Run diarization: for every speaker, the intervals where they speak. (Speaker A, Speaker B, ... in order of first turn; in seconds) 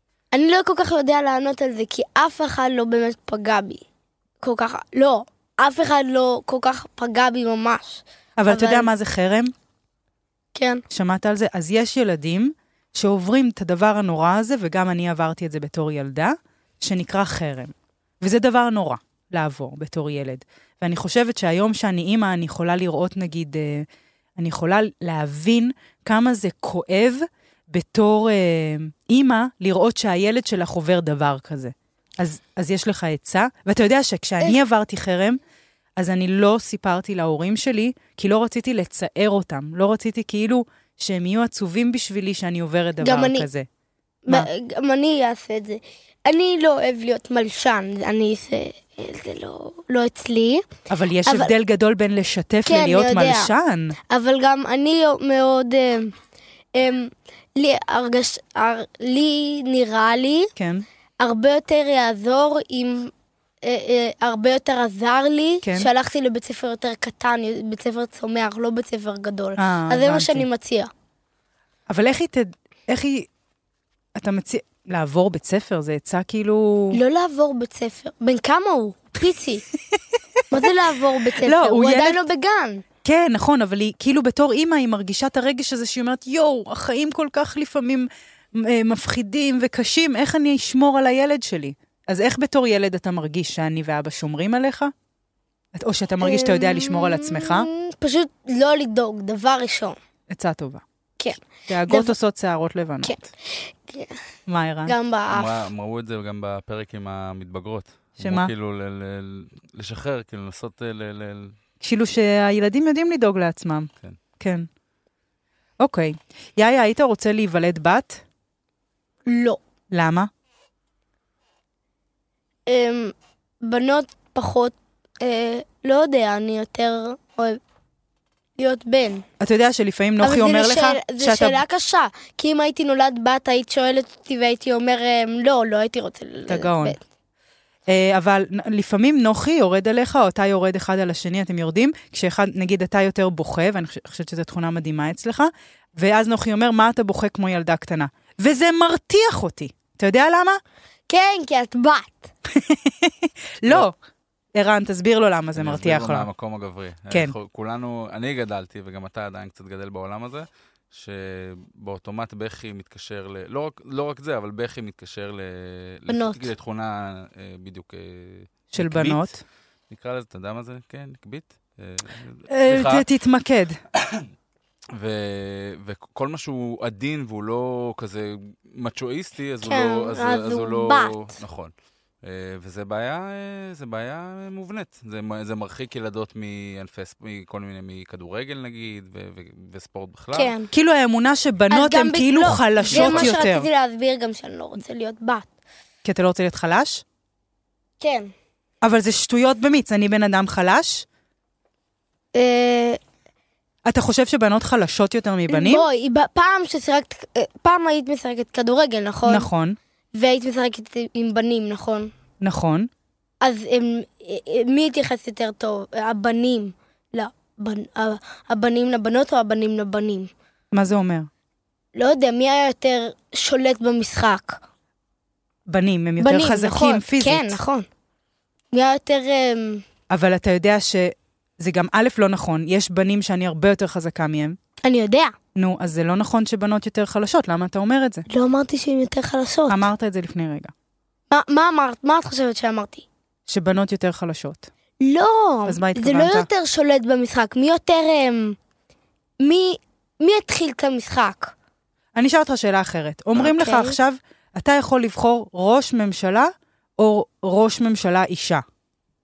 Speaker A: 0.3-3.8, 4.4-8.9, 10.6-10.8, 43.0-43.5, 44.3-50.7, 51.2-51.5, 52.6-53.5, 54.1-56.1, 56.8-60.5, 61.2-63.1, 63.6-70.9, 76.9-79.7, 80.5-82.8, 96.2-100.0, 101.2-102.2, 103.0-104.2, 104.9-105.6, 119.3-119.6, 122.7-127.6, 128.6-129.3, 130.2-137.0, 151.1-152.3, 166.1-166.5, 179.7-181.3, 190.3-190.7, 191.7-195.5, 198.0-198.3, 202.3-203.0, 205.5-209.5, 210.1-212.1, 213.4-220.3, 221.9-224.6, 226.2-227.9, 228.7-229.8, 234.8-235.3, 238.3-239.9, 241.3-243.1, 245.0-248.6, 249.4-251.5, 253.4-254.0
Speaker B: 8.4-9.5, 10.9-23.9, 24.4-35.4, 36.0-43.7, 50.9-54.0, 60.6-60.9, 65.6-65.9, 69.6-70.5, 71.9-73.3, 74.2-77.0, 79.9-80.7, 81.3-82.3, 83.0-94.9, 95.7-97.7, 100.3-100.8, 101.7-103.2, 104.5-104.9, 108.2-108.5, 111.8-113.9, 114.4-114.7, 115.8-118.2, 119.9-120.3, 129.4-131.6, 136.5-137.0, 137.9-150.6, 152.5-153.9, 154.6-156.3, 168.7-169.4, 172.5-173.8, 190.7-193.7, 196.0-197.0, 198.8-201.1, 203.9-205.8, 209.3-209.8, 212.4-212.9, 220.7-221.3, 225.7-227.6, 230.1-234.6, 235.6-238.2, 239.7-240.7, 243.5-244.7, 245.7-246.5, 252.1-258.6
Speaker C: 105.3-111.6, 155.6-169.4, 169.9-173.1, 174.9-181.7, 182.2-190.5, 192.9-193.4